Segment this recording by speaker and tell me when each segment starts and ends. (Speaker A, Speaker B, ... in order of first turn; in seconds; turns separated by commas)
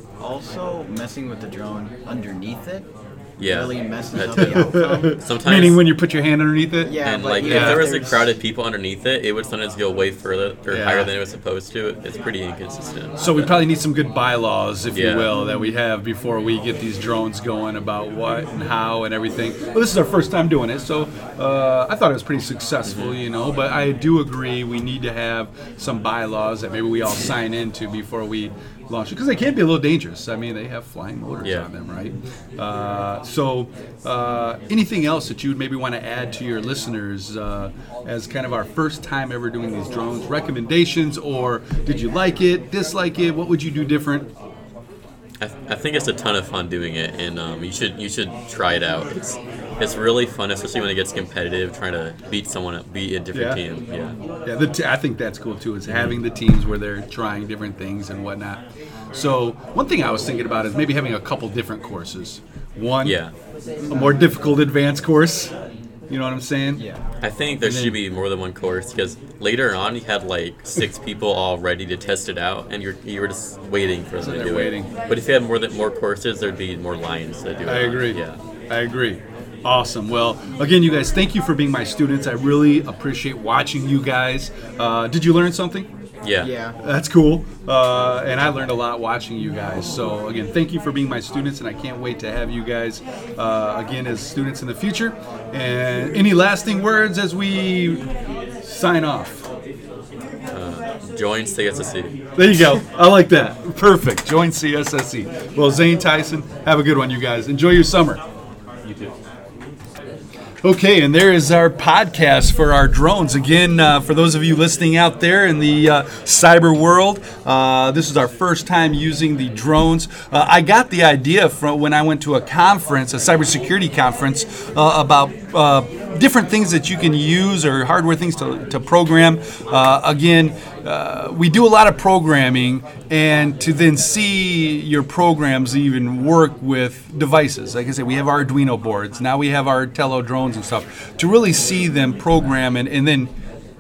Speaker A: 0.2-5.2, Speaker B: 3.4-5.8, Speaker C: 4.4-7.9, Speaker A: 6.8-8.3, Speaker B: 7.0-13.5, Speaker C: 10.7-11.1, Speaker C: 13.2-44.3, Speaker B: 14.9-15.3, Speaker B: 22.9-23.2, Speaker B: 31.4-31.7, Speaker B: 45.4-54.1, Speaker C: 53.3-53.6, Speaker C: 54.4-63.2, Speaker B: 55.9-56.2, Speaker B: 63.0-63.3, Speaker A: 63.8-64.2, Speaker C: 63.9-65.5, Speaker C: 66.1-66.9, Speaker A: 66.8-67.0, Speaker B: 67.2-78.4, Speaker C: 67.6-68.0, Speaker C: 74.2-74.9, Speaker C: 77.7-85.9, Speaker B: 86.2-86.5, Speaker A: 86.4-86.8, Speaker C: 86.8-98.1, Speaker C: 98.6-99.5, Speaker B: 100.5-102.1, Speaker C: 102.3-108.2, Speaker C: 110.6-143.3